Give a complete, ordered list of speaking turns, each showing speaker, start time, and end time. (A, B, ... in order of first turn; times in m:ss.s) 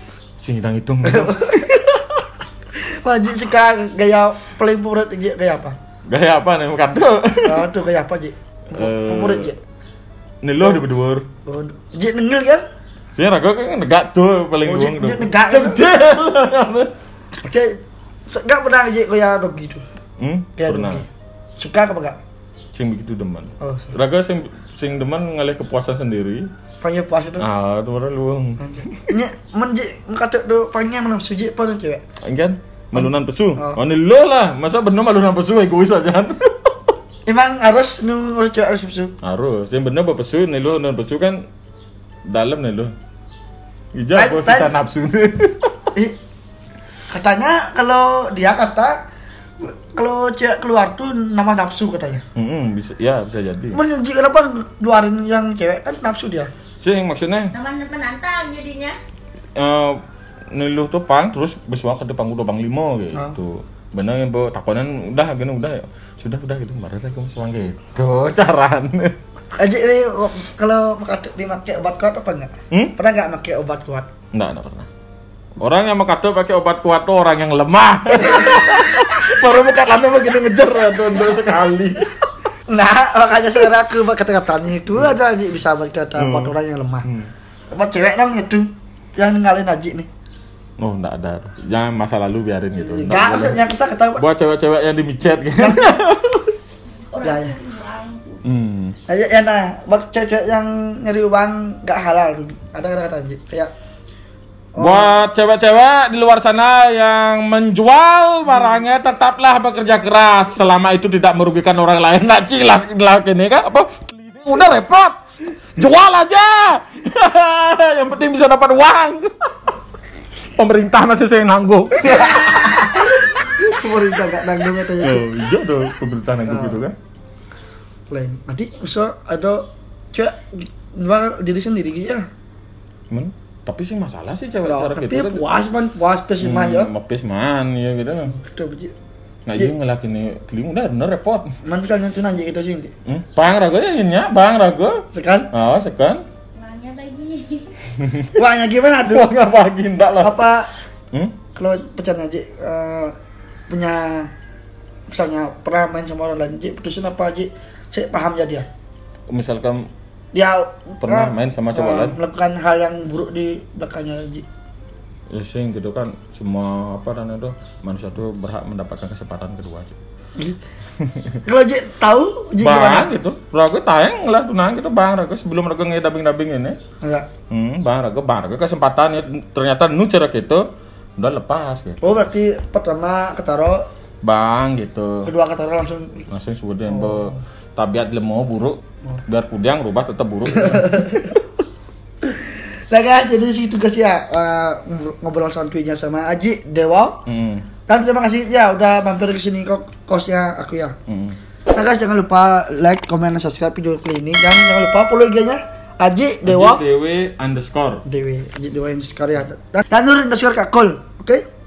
0:00.4-0:02.0 A
0:01.0-0:02.0 B
0:02.8-0:05.8 B
0:06.1-0:07.7 A
0:07.4-0:09.6 B
0:08.7-0:09.5 A
0:10.4-0:11.3 A
0:11.5-0:12.6 B
0:13.2-0:16.9 A
0:14.6-0:15.8 B
0:17.4-0:17.8 B
0:18.3-0:19.8 B
0:20.2-0:21.0 A
0:20.6-0:21.1 B
0:21.6-0:22.2 B
0:22.7-0:26.5 A
0:23.6-0:23.9 B
0:26.8-0:27.5 B
0:27.4-0:29.1 A
0:28.6-0:32.0 B
0:32.2-0:36.9 A
0:37.3-0:39.1 B
0:39.2-0:41.4 A
0:42.2-0:42.9 A
0:43.9-0:45.9 A
0:44.1-0:44.7 B
0:47.1-0:49.0 B
0:49.6-0:52.2 B
0:52.4-0:53.8 A
0:53.7-0:56.5 B
0:56.8-0:57.5 A
0:57.5-0:58.9 C
0:59.6-1:00.0 A
1:00.5-1:09.2 A
1:09.6-1:14.1 B
1:14.3-1:14.9 A
1:15.6-1:22.1 A
1:18.2-1:18.8 B
1:22.7-1:27.1 B
1:26.2-1:27.3 A
1:27.7-1:30.1 B
1:30.8-1:36.5 A
1:32.8-1:34.2 B
1:35.6-1:36.0 B
1:37.1-1:38.4 C
1:37.2-1:37.6 B
1:38.4-1:39.0 A
1:39.1-1:43.7 B
1:44.8-1:45.2 B
1:44.8-1:55.2 A
1:55.8-1:59.5 A
2:00.6-2:03.2 A
2:02.1-2:05.3 B
2:05.0-2:07.0 A
2:06.5-2:06.8 B
2:08.1-2:12.3 B
2:13.1-2:15.4 A
2:14.6-2:16.9 B
2:16.4-2:18.4 A
2:18.3-2:18.9 B
2:19.5-2:21.5 A
2:21.6-2:22.9 B
2:23.1-2:26.2 A
2:25.1-2:25.5 B
2:26.6-2:27.8 C
2:28.0-2:28.4 A
2:28.3-2:29.3 B
2:29.0-2:30.4 A
2:30.2-2:30.7 B
2:31.1-2:31.4 A
2:31.6-2:33.2 B
2:33.7-2:34.3 B
2:35.1-2:38.7 B
2:39.3-2:39.9 A
2:40.3-2:44.4 B
2:41.0-2:42.2 A
2:45.3-2:50.0 A
2:51.0-2:51.4 A
2:51.4-2:53.1 B
2:52.6-2:56.8 A
2:57.0-2:57.3 B
2:57.5-3:02.2 A
3:02.0-3:03.8 B
3:04.2-3:05.3 A
3:05.2-3:06.3 B
3:06.3-3:11.4 A
3:06.9-3:07.4 B
3:10.5-3:11.4 B
3:12.2-3:17.2 B
3:17.3-3:17.7 A
3:17.9-3:21.0 B
3:21.1-3:21.4 A
3:21.7-3:26.8 B
3:26.4-3:28.0 A
3:28.1-3:31.4 B